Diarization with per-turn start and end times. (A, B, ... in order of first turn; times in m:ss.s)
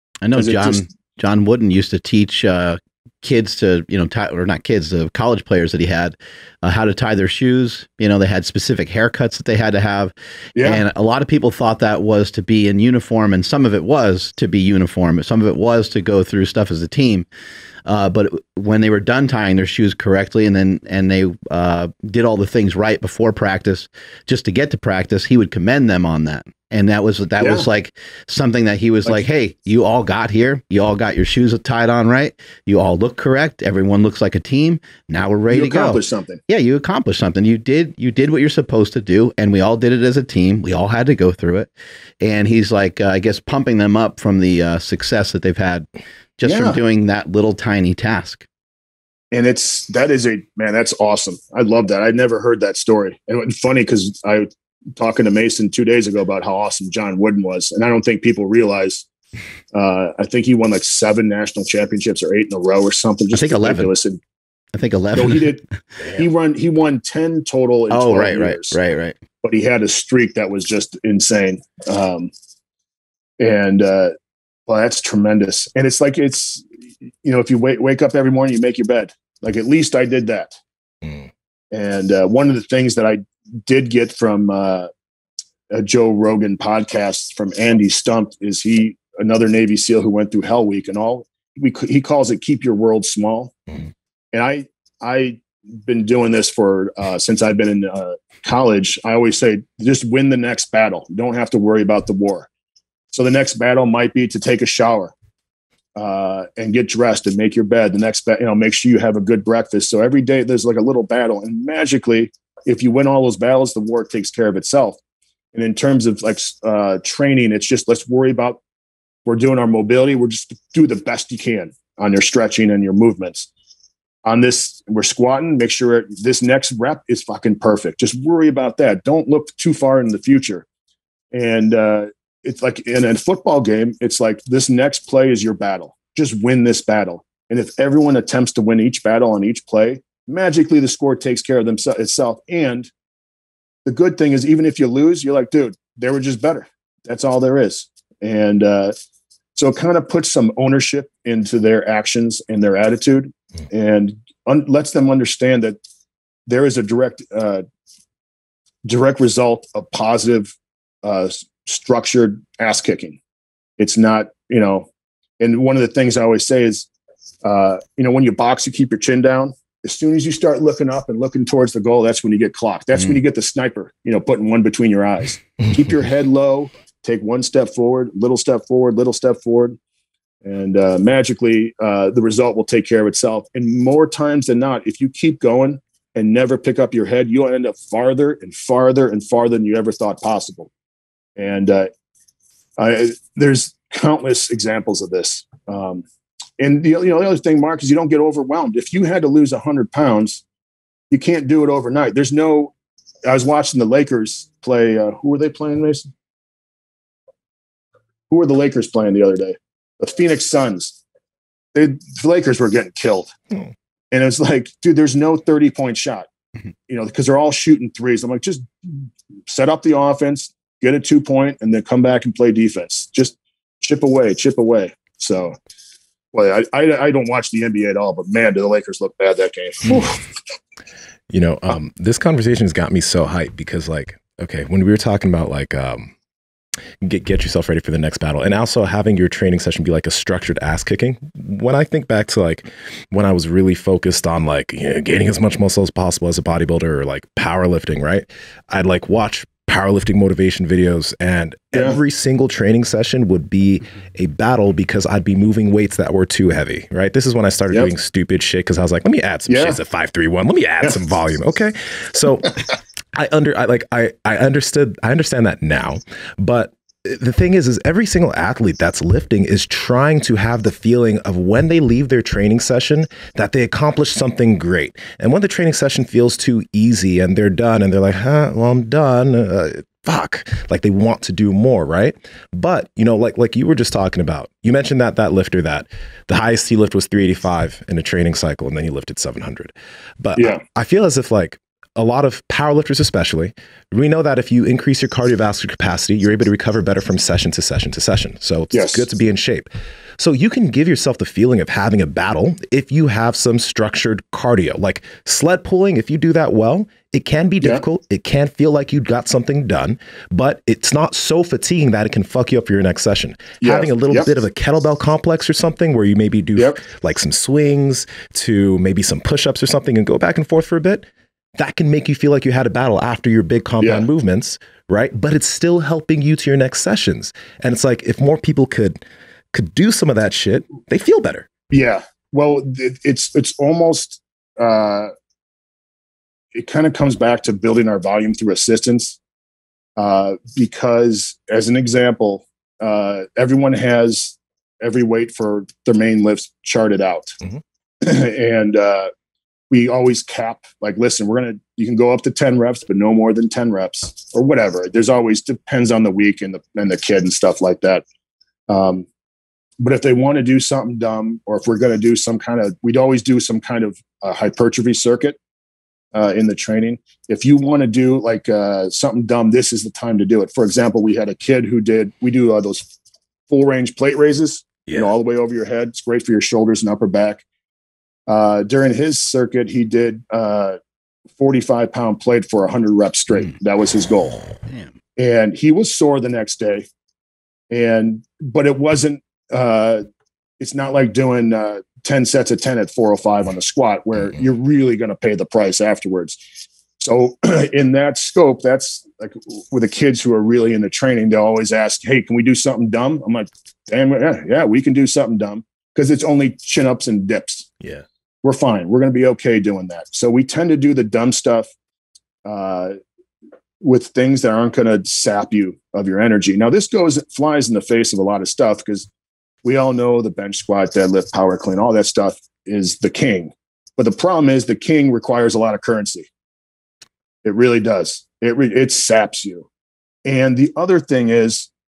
0:00.2-0:17.3 A
0:00.4-0:00.9 B
0:10.6-0:10.8 B
0:17.9-0:41.7 A
0:27.4-0:27.7 B
0:35.5-0:36.4 B
0:42.2-0:45.9 A
0:46.4-0:48.4 A
0:46.4-0:46.8 B
0:49.3-0:59.1 B
0:59.7-1:04.2 B
1:03.3-1:03.9 A
1:04.7-1:05.6 A
1:05.2-1:08.8 B
1:07.9-1:09.2 A
1:09.4-1:12.3 B
1:13.4-1:14.2 B
1:14.7-1:16.7 B
1:17.2-1:20.5 B
1:21.7-1:24.9 B
1:25.7-1:33.6 B
1:34.3-1:42.5 B
1:43.1-1:45.1 B
1:46.0-1:55.0 B
1:55.5-1:58.6 B
1:59.3-2:03.5 B
2:04.2-2:10.6 B
2:11.3-2:22.9 B
2:23.8-2:29.0 B
2:29.6-2:35.8 B
2:36.5-2:37.6 B
2:38.8-2:43.2 B
2:43.8-2:46.9 B
2:47.4-2:59.8 B
3:00.4-3:10.7 B
3:11.4-3:11.9 B
3:12.8-3:16.0 B
3:16.6-3:20.4 B
3:21.1-3:22.7 B
3:23.2-3:26.1 B
3:28.3-3:31.0 B
3:31.7-3:33.3 B
3:34.1-3:36.3 B
3:36.9-3:45.6 B
3:46.3-3:50.2 B
3:51.3-3:56.1 C
3:57.0-4:22.6 C
4:19.5-4:19.8 B
4:23.2-5:21.1 C
4:50.4-4:50.6 B
4:58.7-4:59.1 B
5:13.6-5:14.3 B
5:21.6-5:31.5 C
5:23.8-5:24.1 B
5:31.7-5:35.1 B
5:36.5-5:39.2 B
5:40.0-5:47.4 B
5:48.0-5:49.1 B
5:49.7-5:58.0 B
5:58.7-5:59.1 B
5:59.8-6:05.4 B
6:06.1-6:12.9 B
6:13.5-6:17.4 B
6:18.3-6:20.8 B
6:21.4-6:24.4 B
6:25.2-6:26.9 B
6:27.7-6:30.0 B
6:30.6-6:36.4 B
6:37.0-6:47.7 B
6:48.4-6:51.7 B
6:52.4-6:53.0 B
6:53.8-6:59.1 B
6:59.6-7:06.3 B
7:07.4-7:09.7 B
7:10.2-7:11.7 B